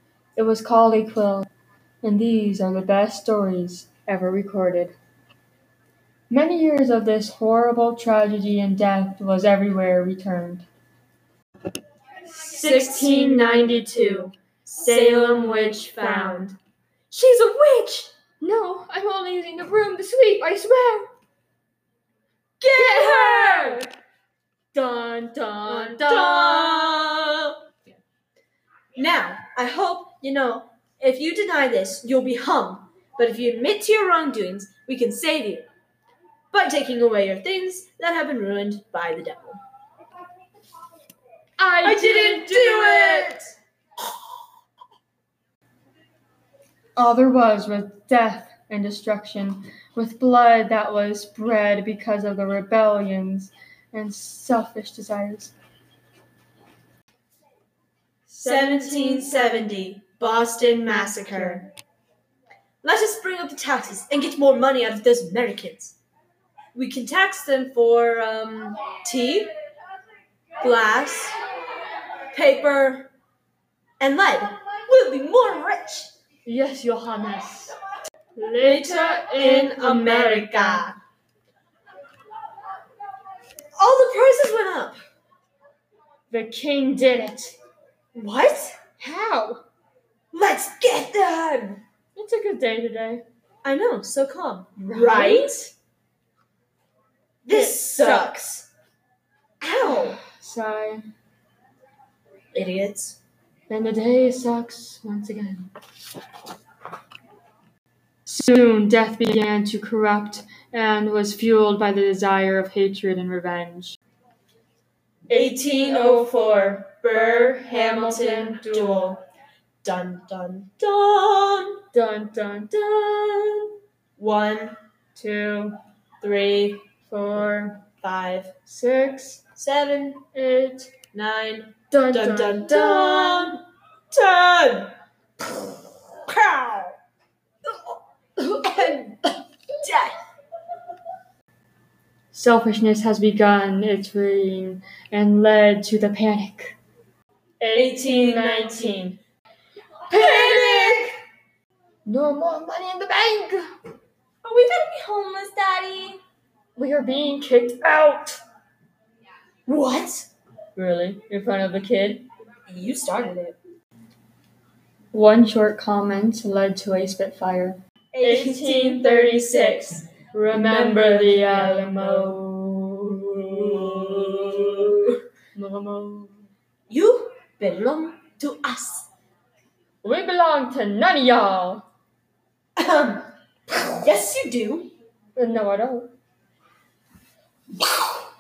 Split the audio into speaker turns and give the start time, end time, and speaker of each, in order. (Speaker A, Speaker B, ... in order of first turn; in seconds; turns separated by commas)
Speaker A: 0.3-1.5, Speaker A: 2.0-4.9, Speaker A: 6.3-10.7, Speaker A: 12.2-16.6, Speaker B: 12.5-16.5, Speaker A: 17.1-21.1, Speaker B: 22.6-23.9, Speaker A: 22.7-23.9, Speaker A: 24.7-27.0, Speaker B: 25.6-27.6, Speaker B: 28.9-35.6, Speaker B: 36.5-39.6, Speaker A: 41.6-43.4, Speaker B: 41.8-43.5, Speaker A: 47.0-55.5, Speaker A: 58.3-59.7, Speaker B: 58.4-61.7, Speaker B: 62.8-66.0, Speaker B: 66.7-69.5, Speaker B: 70.6-71.3, Speaker B: 72.3-73.1, Speaker B: 74.0-76.1, Speaker A: 76.4-77.8, Speaker A: 78.3-80.8, Speaker B: 78.6-81.0, Speaker B: 83.8-85.0, Speaker A: 86.3-87.5, Speaker B: 88.1-88.7, Speaker A: 89.0-89.6, Speaker B: 90.3-91.8, Speaker A: 92.2-93.2, Speaker B: 93.6-95.7, Speaker A: 94.8-95.5, Speaker B: 97.4-98.7, Speaker A: 97.5-98.4, Speaker B: 99.6-100.2, Speaker A: 99.8-101.0, Speaker B: 102.5-103.2, Speaker A: 103.7-105.7, Speaker A: 108.2-114.0, Speaker A: 115.3-119.1, Speaker B: 115.3-119.2, Speaker B: 119.8-121.8, Speaker A: 121.9-123.6, Speaker B: 124.2-124.8, Speaker A: 125.1-125.8, Speaker B: 126.2-126.8, Speaker A: 127.0-127.8, Speaker B: 128.0-128.5, Speaker A: 128.7-129.4, Speaker B: 129.6-130.2, Speaker A: 130.3-130.9, Speaker B: 131.1-134.9, Speaker A: 131.9-133.6, Speaker B: 136.2-136.9, Speaker B: 138.4-140.2, Speaker A: 142.3-146.8, Speaker A: 147.6-149.2, Speaker B: 147.7-149.0, Speaker A: 150.1-151.1, Speaker B: 150.1-151.1, Speaker A: 152.1-153.7, Speaker B: 154.4-156.2, Speaker A: 156.8-158.4, Speaker B: 159.7-160.3, Speaker A: 160.8-162.2, Speaker B: 162.7-163.6, Speaker A: 165.1-174.9, Speaker B: 168.1-172.4, Speaker B: 173.4-175.2, Speaker A: 175.5-176.4, Speaker B: 176.9-179.1, Speaker A: 180.0-181.8, Speaker B: 182.8-184.9, Speaker A: 185.3-186.1